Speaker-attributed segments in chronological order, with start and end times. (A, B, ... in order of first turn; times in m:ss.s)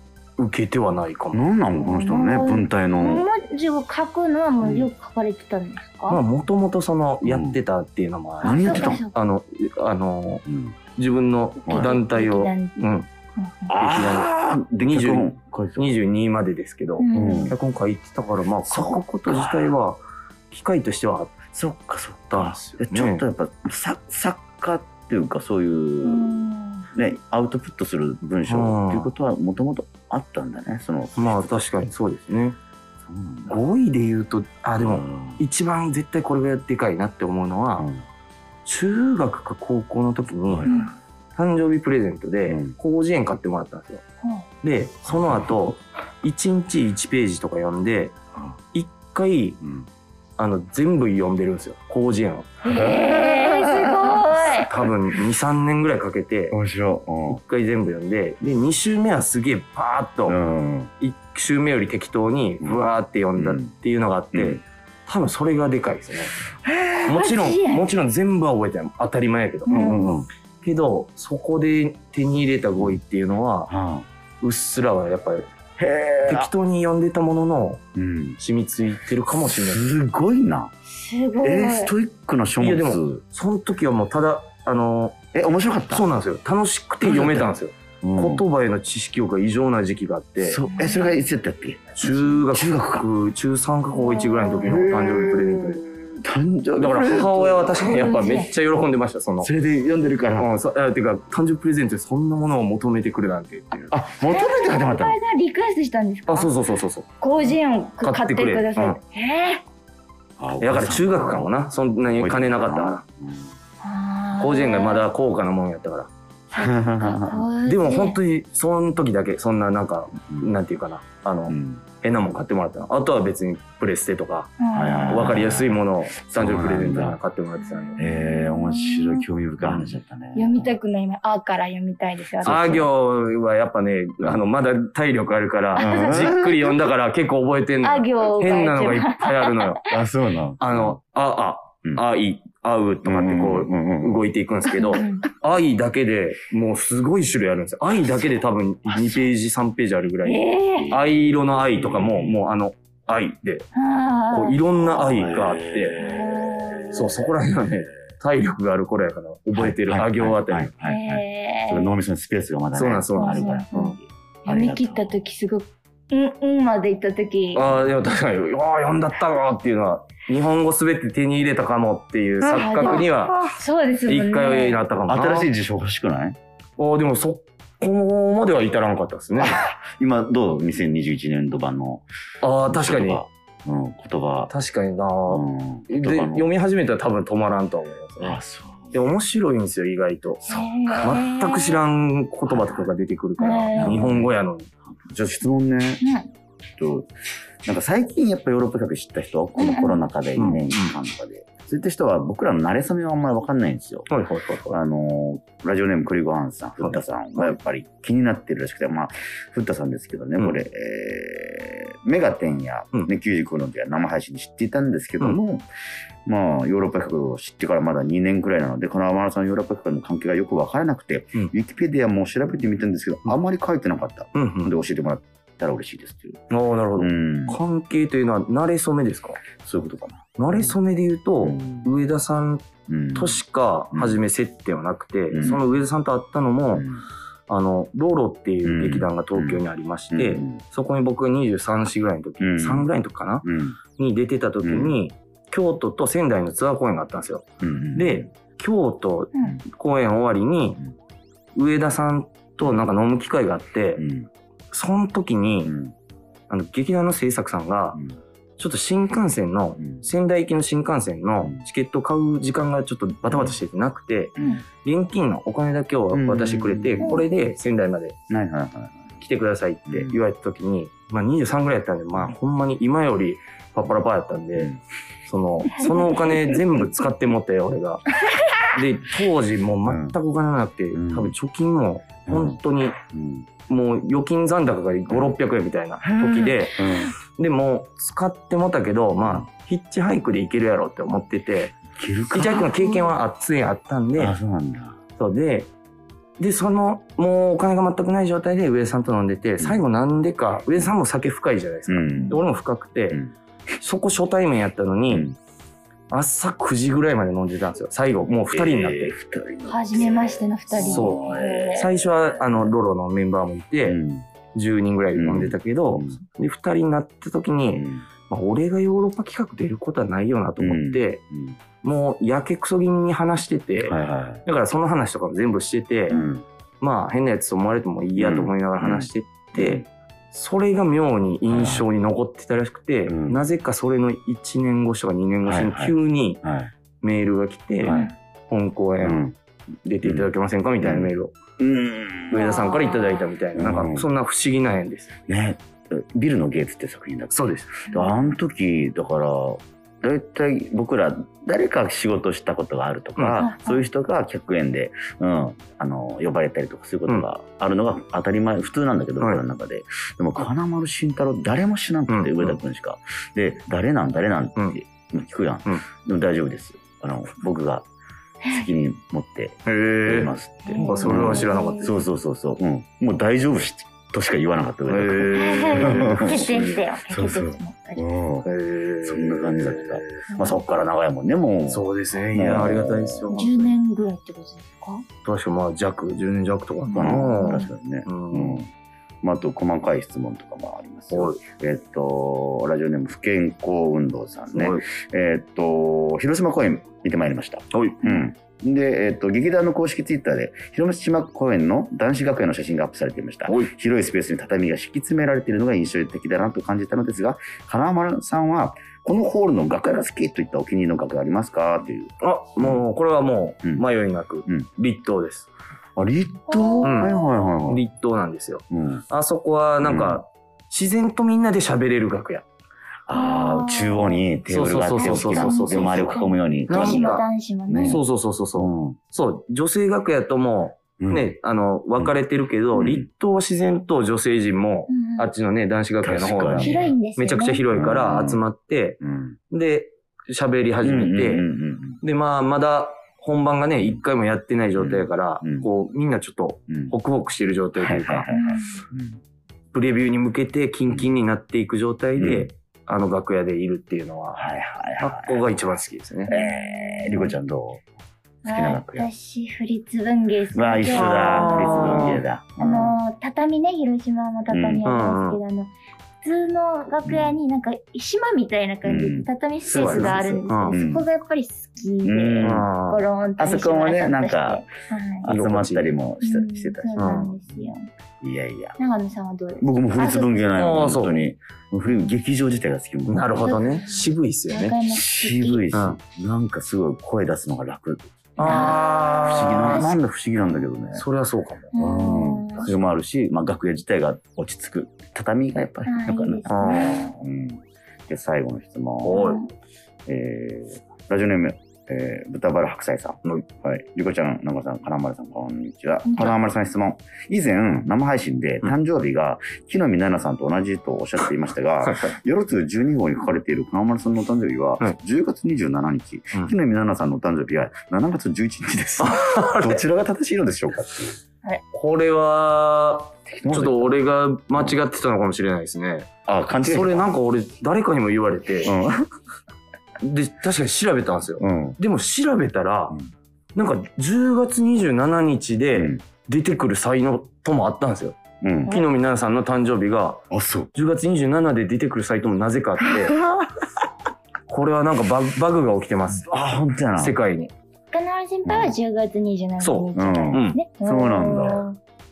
0:00.4-0:01.5 A
0:01.3-0:03.3 B
0:01.7-0:06.2 C
0:06.1-0:10.4 A
0:07.2-0:07.6 B
0:08.4-0:09.0 B
0:08.4-0:09.1 C
0:10.5-0:10.8 B
0:11.0-0:13.1 A
0:11.7-0:11.9 B
0:11.7-0:13.8 C
0:13.7-0:16.0 B
0:13.8-0:21.4 A
0:17.0-0:17.5 C
0:17.1-0:17.6 B
0:18.6-0:19.8 B
0:21.5-0:31.9 B
0:22.3-0:23.2 A
0:26.0-0:26.9 C
0:28.5-0:29.1 A
0:31.2-0:32.6 A
0:33.1-0:33.6 B
0:33.5-0:37.9 A
0:34.8-0:35.4 B
0:37.8-0:38.0 B
0:38.6-0:40.7 A
0:40.5-0:40.9 B
0:40.7-0:40.9 C
0:41.4-0:44.0 A
0:42.5-0:42.8 B
0:44.6-0:48.2 A
0:45.1-0:45.6 B
0:48.7-0:49.6 A
0:49.6-0:49.9 B
0:50.4-0:52.5 A
0:52.6-0:54.7 C
0:52.7-0:54.9 B
0:54.6-0:56.6 A
0:56.5-0:57.4 B
0:57.3-1:00.4 A
1:00.3-1:00.9 B
1:01.0-1:06.4 A
1:03.4-1:03.7 B
1:04.3-1:04.6 B
1:06.7-1:07.9 C
1:07.1-1:10.1 A
1:09.7-1:10.2 C
1:09.7-1:10.3 B
1:10.6-1:13.7 A
1:13.7-1:14.1 B
1:14.4-1:15.4 A
1:15.8-1:16.5 B
1:16.2-1:17.8 A
1:18.0-1:18.4 B
1:18.4-1:19.8 A
1:19.4-1:20.7 B
1:21.0-1:21.9 C
1:21.4-1:23.2 B
1:22.6-1:25.2 A
1:25.3-1:26.1 B
1:25.9-1:30.6 A
1:27.0-1:28.4 B
1:30.4-1:33.1 B
1:30.7-1:31.0 C
1:32.0-1:35.8 A
1:34.0-1:34.8 C
1:34.6-1:38.0 B
1:36.8-1:39.5 A
1:37.8-1:38.5 C
1:39.4-1:40.5 B
1:40.4-1:43.9 A
1:43.9-1:45.2 B
1:44.3-1:46.5 C
1:46.3-1:47.1 A
1:47.2-1:49.6 C
1:48.0-1:49.0 A
1:50.4-1:51.5 B
1:50.6-1:53.0 A
1:52.1-1:53.5 B
1:53.8-1:55.1 C
1:54.4-1:56.1 A
1:56.5-1:58.2 C
1:56.6-1:57.4 B
1:57.7-2:04.6 A
2:01.5-2:01.8 B
2:04.6-2:05.3 C
2:04.7-2:07.2 B
2:05.1-2:08.0 A
2:07.6-2:09.2 C
2:08.0-2:10.7 B
2:09.6-2:10.0 A
2:10.4-2:12.9 C
2:12.4-2:19.8 A
2:12.5-2:12.8 B
2:15.8-2:16.4 C
2:15.8-2:16.7 B
2:17.8-2:20.0 C
2:19.9-2:21.0 B
2:20.6-2:33.7 A
2:23.0-2:24.3 B
2:24.7-2:25.3 C
2:28.9-2:29.3 B
2:30.2-2:31.0 C
2:30.8-2:32.4 B
2:33.8-2:34.6 C
2:34.3-2:36.0 A
2:34.9-2:36.5 B
2:35.9-2:37.1 C
2:36.9-2:40.7 A
2:39.6-2:45.2 B
2:40.8-2:41.9 C
2:42.7-2:43.6 A
2:43.1-2:47.8 C
2:47.5-2:53.5 A
2:52.5-2:54.9 C
2:54.1-2:55.5 A
2:55.1-2:56.4 B
2:56.8-2:59.6 A
2:59.4-3:02.0 B
3:02.4-3:03.2 A
3:02.6-3:04.5 B
3:04.5-3:08.4 A
3:05.3-3:06.5 B
3:08.2-3:09.1 B
3:08.9-3:10.4 A
3:10.4-3:11.8 C
3:10.5-3:11.1 B
3:11.0-3:14.7 A
3:12.5-3:12.9 B
3:13.4-3:14.2 C
3:13.8-3:14.3 B
3:14.9-3:16.0 B
3:16.0-3:16.3 C
3:16.8-3:17.1 B
3:17.6-3:24.1 B
3:19.6-3:20.0 C
3:20.4-3:20.9 A
3:24.1-3:24.8 A
3:24.7-3:35.7 B
3:26.8-3:27.5 A
3:36.3-3:46.4 B
3:44.3-3:44.7 A
3:46.5-3:49.4 A
3:47.0-3:47.6 B
3:49.6-3:50.8 B
3:50.4-3:56.9 A
3:51.4-3:51.9 B
3:52.9-3:53.4 B
3:53.9-3:54.2 B
3:55.3-3:55.6 B
3:56.7-3:57.0 B
3:57.5-4:10.8 A
3:58.6-4:00.6 B
4:02.4-4:02.9 B
4:03.4-4:03.8 B
4:04.6-4:05.0 B
4:07.6-4:08.3 B
4:11.5-4:14.0 A
4:14.0-4:14.3 B
4:14.7-4:15.8 A
4:15.6-4:15.9 B
4:16.5-4:18.0 A
4:18.6-4:28.2 A
4:19.8-4:20.0 B
4:23.3-4:23.6 B
4:24.4-4:24.6 B
4:26.1-4:27.3 B
4:28.3-4:29.2 B
4:29.2-4:34.7 A
4:29.9-4:30.2 B
4:35.3-4:38.0 A
4:35.8-4:36.6 C
4:38.7-4:43.0 A
4:39.9-4:40.2 B
4:40.9-4:41.4 B
4:42.3-4:43.5 B
4:43.7-4:51.8 A
4:45.1-4:45.3 B
4:46.0-4:47.2 B
4:51.9-4:53.1 B
4:52.3-4:54.4 A
4:54.2-4:55.0 B
4:55.2-4:55.7 A
4:56.4-5:03.2 A
5:01.9-5:02.4 B
5:03.8-5:05.3 A
5:05.1-5:05.4 B
5:06.1-5:09.1 A
5:08.4-5:12.7 B
5:09.6-5:11.9 C
5:10.7-5:14.0 A
5:13.8-5:14.3 B
5:14.5-5:21.2 A
5:15.2-5:16.2 B
5:17.7-5:18.1 B
5:20.6-5:21.6 B
5:21.8-5:26.2 A
5:23.8-5:24.4 B
5:26.1-5:26.4 B
5:26.8-5:36.4 A
5:28.2-5:29.9 B
5:31.5-5:31.9 B
5:33.1-5:33.4 B
5:35.4-5:36.7 B
5:37.0-5:39.3 A
5:37.8-5:38.1 B
5:37.9-5:38.1 C
5:39.0-5:39.4 B
5:39.9-5:41.4 A
5:40.0-5:42.6 B
5:42.3-5:45.2 A
5:42.4-5:43.2 C
5:43.6-5:44.1 B
5:45.3-6:07.9 B
5:47.3-5:47.7 A
5:47.9-5:48.2 C
5:53.2-5:53.4 A
5:53.4-5:53.8 C
6:02.1-6:02.6 A
6:08.5-6:18.5 B
6:09.7-6:12.0 A
6:10.7-6:11.9 C
6:14.9-6:16.8 A
6:15.3-6:18.1 C
6:18.4-6:20.8 A
6:19.0-6:23.4 B
6:20.3-6:20.6 C
6:21.7-6:23.7 A
6:23.3-6:25.0 C
6:25.2-6:28.6 A
6:26.9-6:27.7 C
6:27.0-6:28.7 B
6:29.2-6:52.8 B
6:31.1-6:31.4 A
6:34.5-6:34.8 A
6:37.7-6:38.1 A
6:52.2-6:55.5 A
6:56.0-6:57.8 B
6:56.5-6:57.3 C
6:56.8-6:57.1 A
6:57.7-7:02.4 A
6:58.7-6:59.0 B
6:59.8-7:00.2 B
7:03.1-7:08.0 B
7:03.1-7:04.2 C
7:04.5-7:07.2 A
7:04.9-7:08.0 C
7:07.8-7:19.0 A
7:08.6-7:09.0 B
7:11.0-7:11.4 B
7:12.8-7:13.1 B
7:14.9-7:15.3 C
7:16.0-7:16.9 B
7:16.6-7:17.6 C
7:17.7-7:18.4 B
7:19.0-7:19.4 B
7:19.5-7:21.4 A
7:20.8-7:22.0 B
7:22.0-7:28.3 A
7:24.8-7:25.7 B
7:26.7-7:27.0 B
7:27.8-7:29.2 B
7:28.3-7:28.8 C
7:29.7-7:34.5 A
7:30.9-7:31.1 B
7:32.2-7:32.5 B
7:34.4-7:35.4 B
7:35.0-7:36.3 A
7:36.3-7:37.4 C
7:36.3-7:37.8 B
7:38.4-7:39.1 B
7:38.4-7:55.3 C
7:40.5-7:43.0 B
7:40.9-7:42.2 A
7:44.5-7:44.8 B
7:44.8-7:45.4 A
7:47.1-7:47.4 B
7:48.8-7:51.1 B
7:49.7-7:50.8 A
7:52.0-7:52.7 B
7:52.4-7:53.1 A
7:53.4-7:54.7 B
7:55.2-7:58.8 B
7:55.2-7:55.9 A
7:56.2-7:57.9 C
7:57.0-7:57.3 A
7:58.8-8:00.5 C
7:59.6-8:03.4 B
8:00.6-8:01.2 A
8:03.1-8:04.8 A
8:03.4-8:05.7 C
8:04.8-8:11.0 B
8:05.7-8:06.0 A
8:08.4-8:09.9 A
8:08.4-8:09.9 C
8:11.0-8:11.7 A
8:11.7-8:12.7 C
8:11.8-8:19.2 B
8:15.8-8:17.0 C
8:16.5-8:17.1 A
8:19.0-8:19.4 A
8:19.1-8:19.5 C
8:20.1-8:41.2 B
8:26.0-8:26.4 C
8:31.8-8:32.1 A
8:39.0-8:39.8 A
8:41.7-8:46.1 A
8:43.3-8:44.0 B
8:44.5-8:44.8 B
8:46.3-8:47.1 B
8:46.6-8:48.7 A
8:48.6-8:49.1 B
8:50.0-8:53.0 A
8:51.4-8:51.8 B
8:53.6-9:00.2 A
8:55.8-8:56.0 B
8:58.4-8:58.8 B
9:00.3-9:00.7 B
9:00.7-9:03.2 A
9:04.5-9:06.3 A
9:06.2-9:07.2 B
9:07.0-9:07.5 A
9:07.9-9:11.8 C
9:08.4-9:08.7 B
9:09.6-9:10.6 A
9:10.0-9:11.7 B